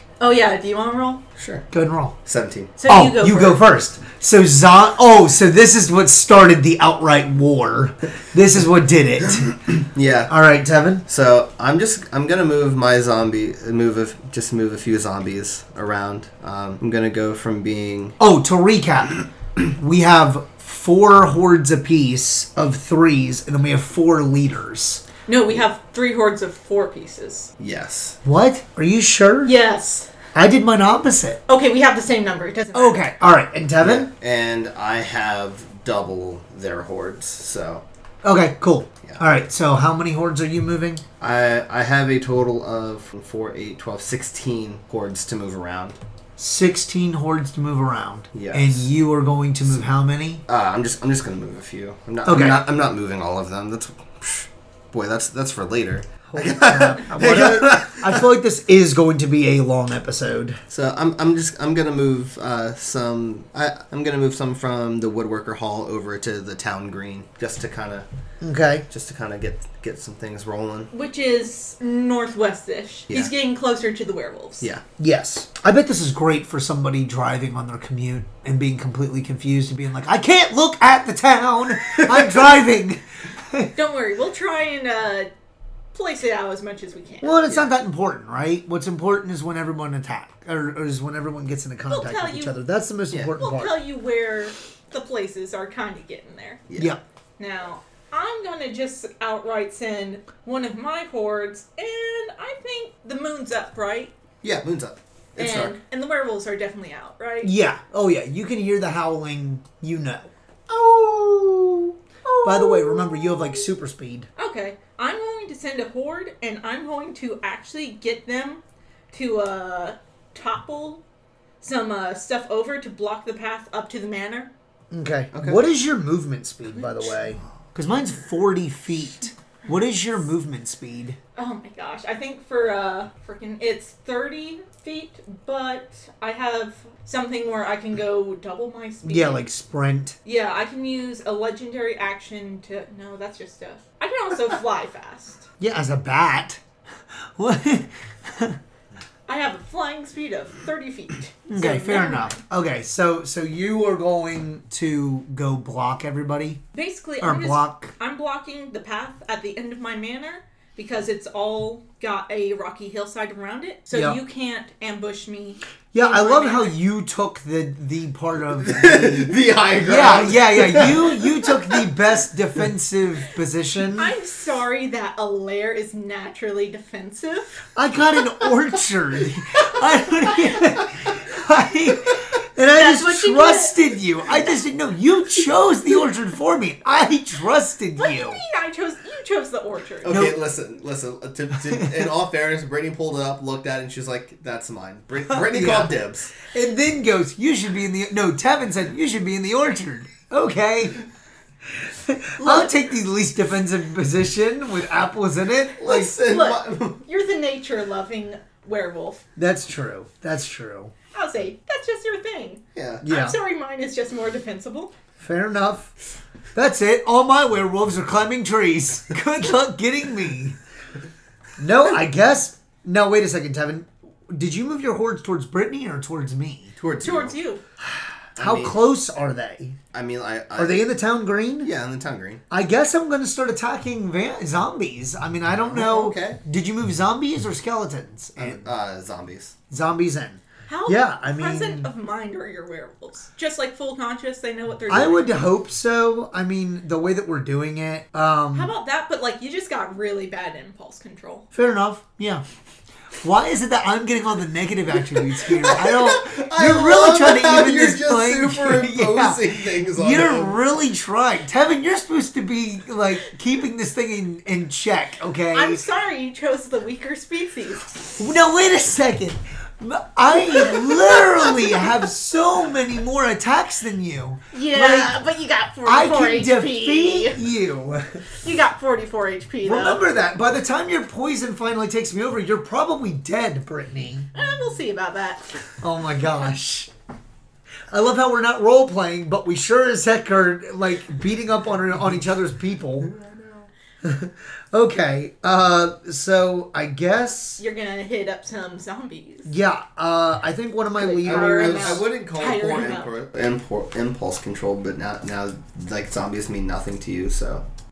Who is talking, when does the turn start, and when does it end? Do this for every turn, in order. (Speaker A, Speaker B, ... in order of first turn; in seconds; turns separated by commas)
Speaker A: 0.2-1.2, Speaker B: 1.4-1.7, Speaker C: 1.7-2.1, Speaker B: 2.2-2.7, Speaker A: 2.8-3.6, Speaker C: 2.8-9.5, Speaker B: 9.4-10.3, Speaker C: 10.3-11.0, Speaker B: 11.1-18.2, Speaker C: 18.2-25.0, Speaker A: 25.3-27.5, Speaker B: 27.6-28.2, Speaker C: 28.2-29.5, Speaker A: 29.4-30.1, Speaker C: 30.3-31.4, Speaker A: 31.5-33.1, Speaker C: 32.7-34.1, Speaker B: 33.8-37.8, Speaker C: 38.2-41.0, Speaker B: 41.2-46.0, Speaker C: 46.4-50.4, Speaker B: 48.3-48.9, Speaker B: 50.5-58.2, Speaker C: 52.2-52.6, Speaker C: 56.3-60.6, Speaker B: 60.7-68.0, Speaker C: 68.4-68.8, Speaker B: 68.9-70.9, Speaker A: 70.9-74.7, Speaker C: 75.0-83.7, Speaker A: 83.8-85.3, Speaker A: 85.9-87.4, Speaker C: 87.2-93.8, Speaker A: 91.9-92.5, Speaker A: 93.4-96.6, Speaker B: 96.7-96.9, Speaker C: 96.8-97.0, Speaker A: 97.4-104.1, Speaker B: 104.4-105.7, Speaker A: 105.4-107.5, Speaker C: 107.4-110.3, Speaker A: 110.7-113.7, Speaker C: 112.4-114.3, Speaker A: 114.4-121.0, Speaker A: 121.6-124.5, Speaker C: 124.9-131.2, Speaker B: 125.3-125.6, Speaker A: 131.3-139.4, Speaker C: 139.0-140.2, Speaker A: 140.2-145.5, Speaker C: 145.6-146.6, Speaker C: 147.4-148.6, Speaker A: 149.3-152.4, Speaker C: 151.5-156.6, Speaker A: 156.7-166.7, Speaker C: 157.2-157.9, Speaker C: 163.9-164.2, Speaker C: 165.9-174.1, Speaker B: 168.6-171.8, Speaker A: 173.9-177.7, Speaker C: 177.7-188.4, Speaker A: 182.7-184.4, Speaker A: 188.0-190.2, Speaker B: 190.0-196.3, Speaker C: 190.1-190.4, Speaker C: 191.7-192.0, Speaker C: 195.3-195.9, Speaker C: 196.4-201.0, Speaker C: 201.7-206.1, Speaker A: 202.4-202.7, Speaker B: 205.8-207.0, Speaker A: 206.1-209.2, Speaker C: 209.3-210.9, Speaker A: 211.1-214.9, Speaker B: 212.7-213.0, Speaker C: 213.0-213.3, Speaker C: 215.2-215.9, Speaker C: 216.5-220.6, Speaker C: 221.6-226.7, Speaker B: 226.8-227.3, Speaker A: 227.0-227.6, Speaker C: 227.8-229.8, Speaker B: 228.3-228.8, Speaker B: 229.9-230.8, Speaker C: 230.6-231.7, Speaker B: 231.6-232.4, Speaker C: 232.5-238.6, Speaker B: 235.6-236.4, Speaker B: 238.4-239.5, Speaker C: 239.7-241.9, Speaker A: 240.7-245.3, Speaker C: 244.9-248.7, Speaker A: 248.5-251.4, Speaker C: 251.5-252.4, Speaker C: 253.2-265.8, Speaker B: 255.4-260.6, Speaker A: 265.5-268.0, Speaker C: 268.2-275.2, Speaker A: 274.5-277.4, Speaker C: 275.8-278.2, Speaker A: 278.4-280.0, Speaker C: 279.6-284.3, Speaker A: 284.3-285.5, Speaker C: 285.8-286.9, Speaker C: 287.9-293.1, Speaker B: 293.1-293.7, Speaker C: 294.0-297.6, Speaker A: 297.6-299.5, Speaker C: 299.4-302.0, Speaker A: 301.0-303.1, Speaker B: 301.2-307.6